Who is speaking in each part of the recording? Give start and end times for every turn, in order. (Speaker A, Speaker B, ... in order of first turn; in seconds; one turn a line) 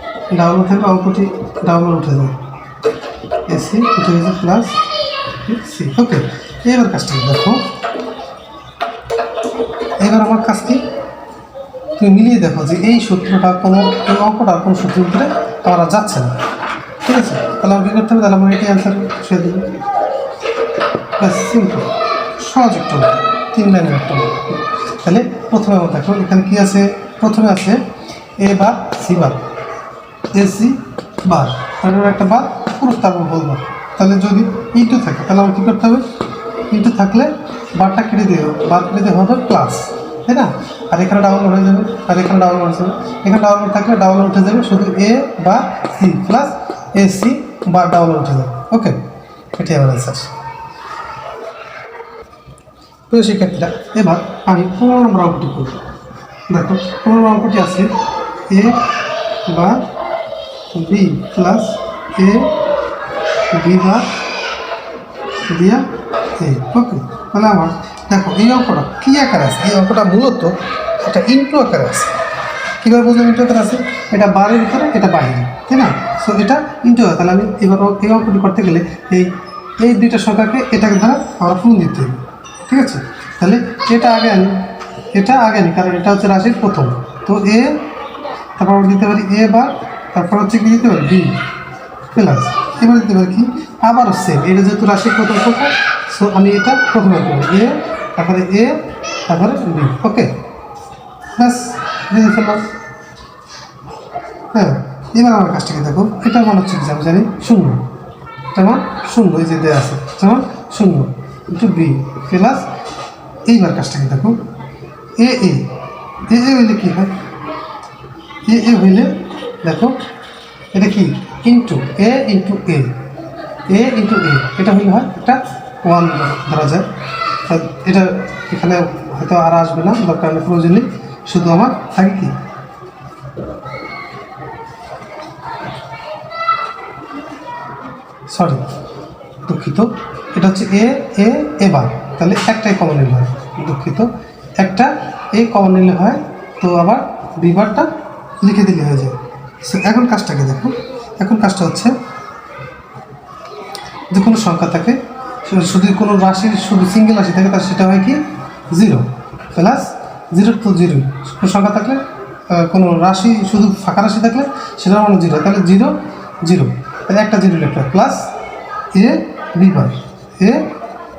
Speaker A: 0.3-2.4
Speaker A: 3.5-4.8
Speaker A: 5.4-7.7
Speaker A: 10.0-10.8
Speaker A: 12.0-16.3
Speaker A: 17.0-19.7
Speaker A: 21.2-27.8
Speaker A: 28.4-29.4
Speaker A: 30.3-36.0
Speaker A: 36.7-49.0
Speaker A: 49.5-50.3
Speaker A: 53.1-55.8
Speaker A: 56.5-57.9
Speaker A: 58.5-58.8
Speaker A: 59.5-59.9
Speaker A: 60.7-62.5
Speaker A: 63.5-64.1
Speaker A: 65.5-72.2
Speaker A: 72.8-84.6
Speaker A: 85.1-87.8
Speaker A: 88.6-91.4
Speaker A: 92.1-100.3
Speaker A: 101.3-102.7
Speaker A: 104.5-107.8
Speaker A: 108.5-112.7
Speaker A: 113.5-114.4
Speaker A: 115.2-115.7
Speaker A: 116.3-117.1
Speaker A: 118.4-120.0
Speaker A: 120.7-123.0
Speaker A: 123.7-126.9
Speaker A: 127.5-132.3
Speaker A: 138.3-138.6
Speaker A: 139.4-151.9
Speaker A: 154.1-168.3
Speaker A: 168.9-170.7